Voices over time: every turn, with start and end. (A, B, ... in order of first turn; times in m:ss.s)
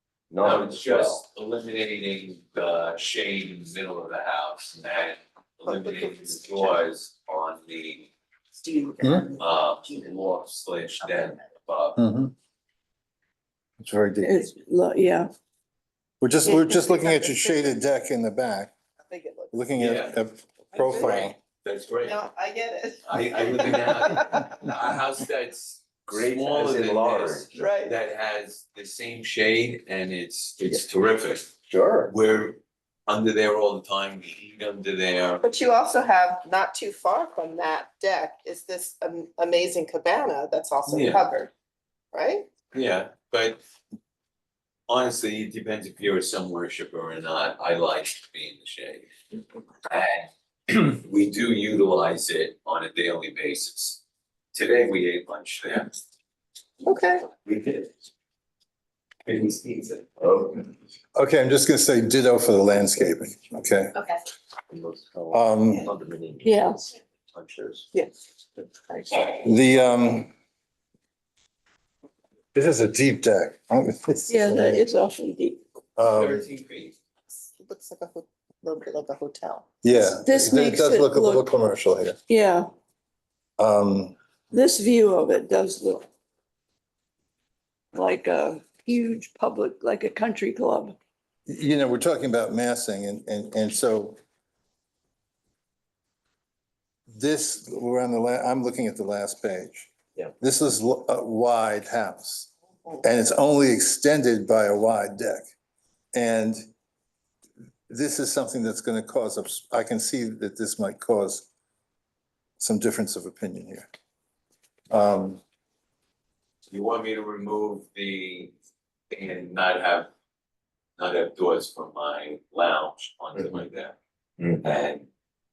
0:00.3-0:01.2 A
0:00.4-0:08.1 B
0:05.7-0:06.6 C
0:08.6-0:09.5 C
0:09.0-0:09.3 D
0:09.4-0:12.0 B
0:12.0-0:12.3 D
0:13.8-0:14.4 D
0:14.2-0:15.3 E
0:16.2-0:18.8 D
0:16.4-0:17.8 C
0:19.0-0:19.6 C
0:19.5-0:21.4 D
0:19.8-0:20.2 B
0:20.8-0:21.2 C
0:20.9-0:22.2 B
0:22.0-0:24.6 C
0:23.0-0:31.5 B
0:26.1-0:27.5 A
0:27.6-0:28.0 C
0:31.7-0:32.1 A
0:32.1-0:35.5 B
0:35.4-0:41.5 C
0:40.9-0:41.2 B
0:42.1-0:42.5 C
0:42.7-0:43.6 B
0:44.9-0:49.1 B
0:49.9-0:54.0 B
0:54.5-0:56.0 B
0:56.8-0:57.3 C
0:57.4-0:57.9 B
0:59.3-1:00.2 B
1:00.2-1:00.6 A
1:01.2-1:04.0 D
1:04.7-1:07.9 A
1:05.3-1:05.9 D
1:06.4-1:06.8 E
1:07.9-1:08.2 C
1:08.9-1:09.4 C
1:09.3-1:10.3 D
1:12.5-1:14.8 D
1:14.3-1:15.6 E
1:16.0-1:16.4 D
1:16.1-1:17.0 B
1:17.3-1:19.7 C
1:19.8-1:22.2 D
1:20.0-1:21.5 E
1:22.3-1:22.7 E
1:23.6-1:24.2 D
1:24.5-1:26.1 E
1:27.9-1:31.0 E
1:31.5-1:34.2 D
1:37.1-1:42.5 D
1:43.0-1:45.5 D
1:46.1-1:46.6 D
1:47.9-1:51.5 D
1:52.6-1:53.9 D
1:54.9-1:55.4 D
1:56.7-1:58.5 B
1:59.1-2:00.1 B
2:01.0-2:04.0 B
2:04.6-2:05.1 B